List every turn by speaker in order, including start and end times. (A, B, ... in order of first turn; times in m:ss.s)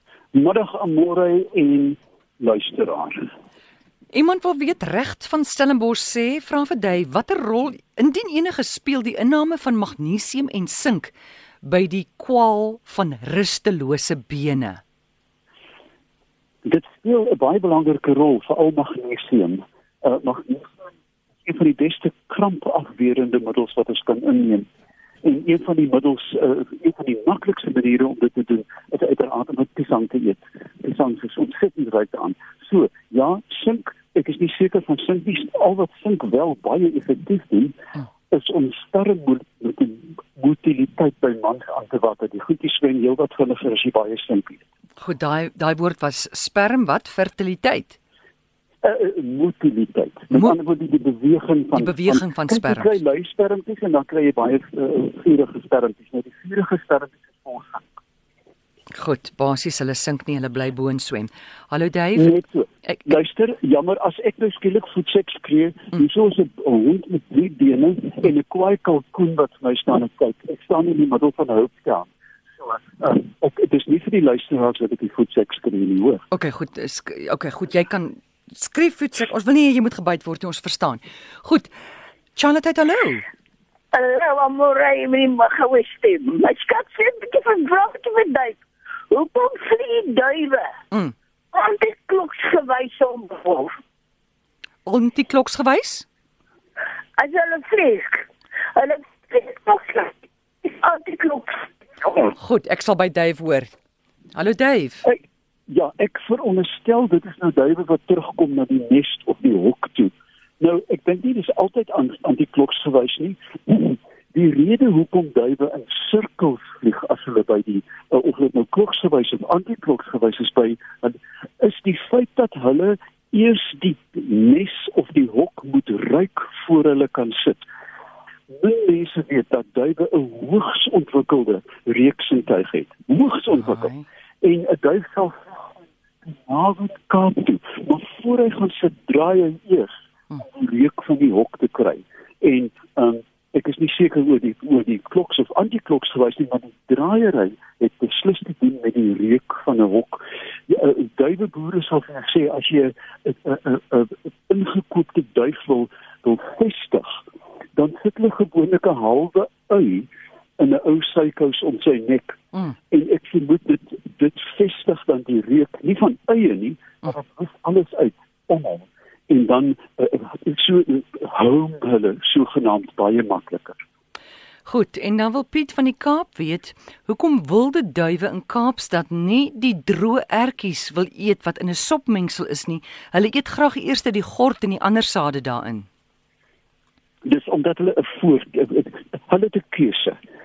0:00.3-0:03.3 A
0:04.1-0:11.1 B
0:11.6-0:14.8 B
0:16.6-0:20.7 A
0:21.4-0:24.6 A
0:25.2-0:37.7 A
0:38.3-0:44.6 A
0:45.0-0:48.0 B
0:48.8-0:58.0 A
0:51.7-0:52.9 B
0:58.9-1:02.3 B
1:02.1-1:12.1 A
1:12.6-1:16.2 A
1:16.3-1:21.7 B
1:22.4-1:23.2 B
1:23.9-1:30.7 C
1:31.5-1:33.7 C
1:34.8-1:36.1 B
1:37.2-1:42.1 C
1:42.3-1:43.7 B
1:44.3-1:45.0 B
1:45.0-2:07.6 A
2:08.5-2:13.9 A
2:13.7-2:14.0 B
2:14.4-2:15.7 A
2:16.2-2:37.2 A
2:37.7-2:42.4 A
2:42.9-2:53.8 A
2:54.6-3:05.9 B
3:07.2-3:10.2 A